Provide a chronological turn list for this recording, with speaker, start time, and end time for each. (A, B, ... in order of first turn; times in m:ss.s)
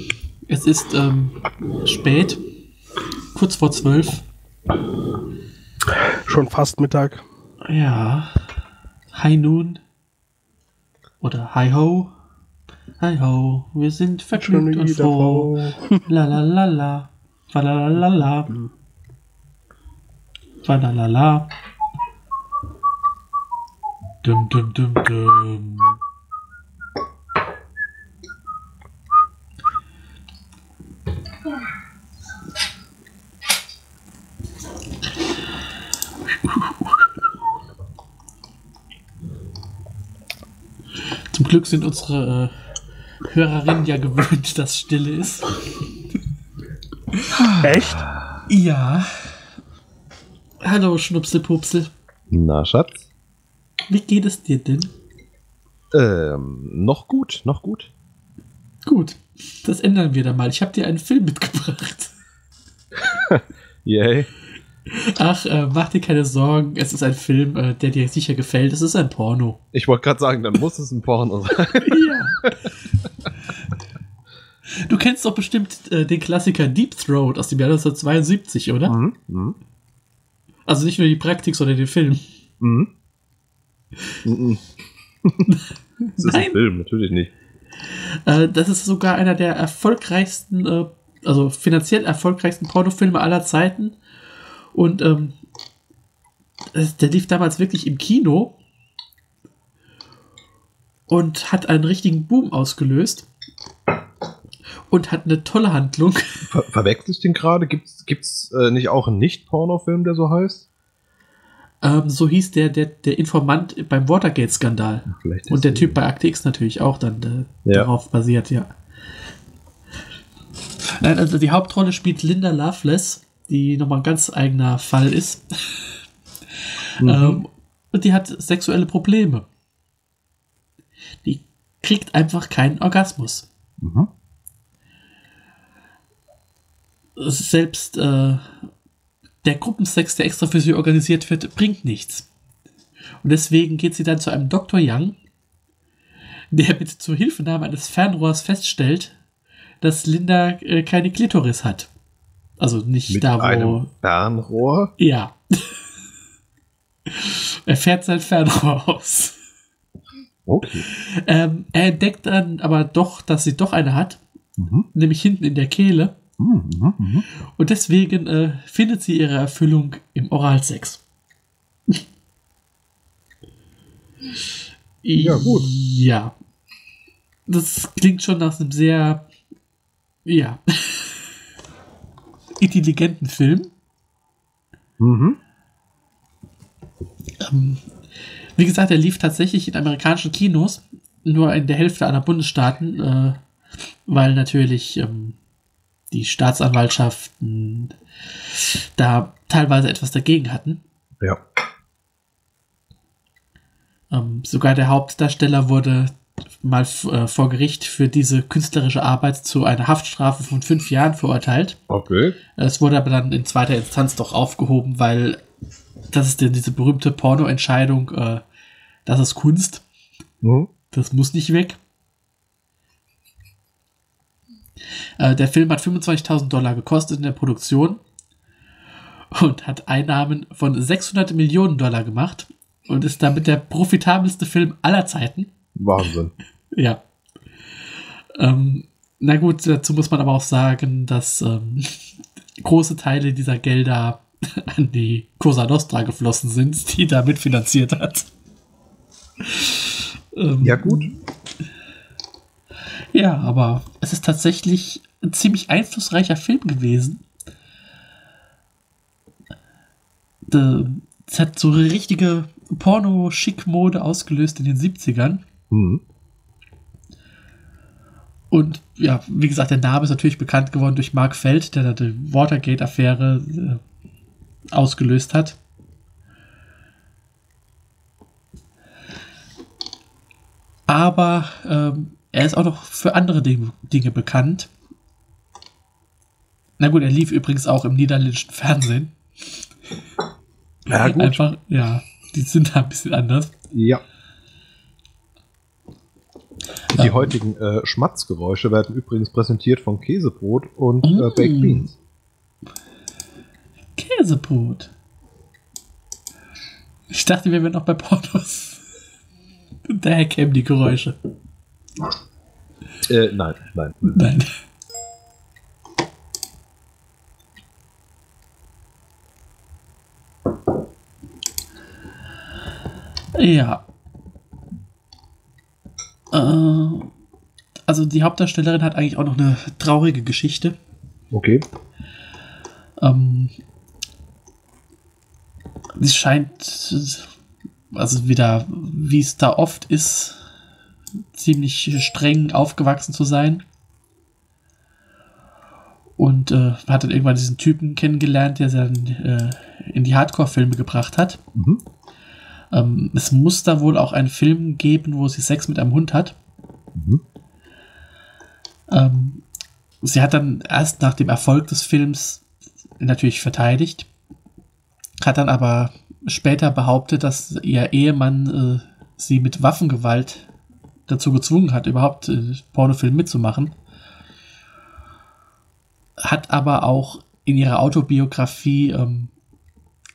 0:00.5-0:02.4 A
0:03.3-0:04.2 A
0:06.3-0:07.2 B
0:07.6-0:08.3 A
0:09.1-0:09.8 A
0:11.2-0:12.1 A
0:13.0-0:15.6 A
0:14.4-0:15.9 B
0:16.1-0:18.6 A
0:20.6-0:21.5 A
0:24.2-0:26.0 A
0:41.3-0:42.5 A
0:43.3-0:45.5 A
0:47.3-0:48.5 C
0:47.6-0:48.0 B
0:48.5-0:49.3 A
0:50.6-0:51.9 A
0:52.3-0:53.0 C
0:53.9-0:54.9 A
0:55.9-0:57.9 C
0:58.9-1:02.1 A
1:03.0-1:04.3 C
1:04.9-1:09.6 A
1:09.7-1:12.5 C
1:11.8-1:12.4 A
1:14.8-1:19.0 A
1:18.9-1:19.6 C
1:20.7-1:22.2 A
1:22.6-1:22.9 C
1:24.2-1:24.7 C
1:25.5-1:26.6 A
1:26.2-1:27.3 C
1:27.9-1:34.0 A
1:34.7-1:35.4 A
1:36.7-1:38.6 A
1:41.1-1:43.3 A
1:44.9-1:46.5 A
1:46.5-1:50.7 C
1:51.8-1:58.7 A
1:55.1-1:56.0 C
2:00.8-2:05.9 A
2:06.8-2:09.5 A
2:07.0-2:07.4 C
2:11.2-2:13.5 A
2:13.8-2:14.1 C
2:17.2-2:18.7 A
2:19.4-2:22.3 A
2:23.2-2:25.2 A
2:26.5-2:29.2 A
2:29.8-2:31.9 A
2:32.6-2:33.9 A
2:33.1-2:34.9 C
2:35.0-2:35.4 A
2:37.1-2:39.4 A
2:40.4-2:40.9 C
2:40.7-2:44.2 A
2:44.6-2:44.9 C
2:44.9-2:46.2 A
2:46.4-2:47.3 C
2:47.6-2:51.0 A
2:55.0-2:56.3 A
2:55.2-2:55.7 C
2:57.5-2:59.3 A
3:00.3-3:01.3 A
3:02.6-3:03.7 A
3:05.0-3:05.4 C
3:07.4-3:07.9 A
3:08.6-3:13.4 A
3:14.1-3:15.4 A
3:16.1-3:18.0 A
3:18.5-3:20.8 A
3:24.1-3:31.8 A
3:31.9-3:32.4 C
3:32.6-3:35.4 A
3:36.1-3:38.4 A
3:39.1-3:39.8 A
3:40.4-3:40.7 C
3:40.9-3:41.8 A
3:45.2-3:48.0 A
3:49.3-3:55.5 A
3:55.8-3:56.3 C
3:56.7-3:57.0 A
3:58.4-4:08.3 A
4:09.4-4:11.2 A
4:10.6-4:11.1 C
4:13.1-4:17.2 A
4:20.5-4:25.4 A
4:25.7-4:26.0 C
4:28.5-4:33.8 A
4:34.7-4:35.6 A
4:40.9-4:44.7 A
4:46.8-4:49.2 A
4:50.9-4:51.4 C
4:50.9-4:53.5 A
4:53.7-4:54.0 C
4:56.9-4:57.3 A
4:56.9-5:01.9 C
5:01.0-5:01.9 A
5:04.0-5:04.9 A
5:07.1-5:08.8 A
5:09.9-5:11.2 A
5:13.1-5:14.2 C
5:14.1-5:14.5 A
5:23.4-5:23.8 A
5:26.3-5:27.1 A
5:27.9-5:30.8 A
5:31.3-5:31.7 C
5:33.0-5:33.6 A
5:36.0-5:37.3 A
5:37.9-5:40.4 A
5:41.4-5:43.6 A
5:46.2-5:51.4 A
5:51.5-5:51.8 C
5:52.7-5:56.4 A
5:57.0-5:57.2 C
5:58.9-5:59.4 A
6:00.0-6:02.4 A
6:03.0-6:04.1 A
6:05.2-6:10.5 A
6:11.1-6:13.7 A
6:16.2-6:19.3 A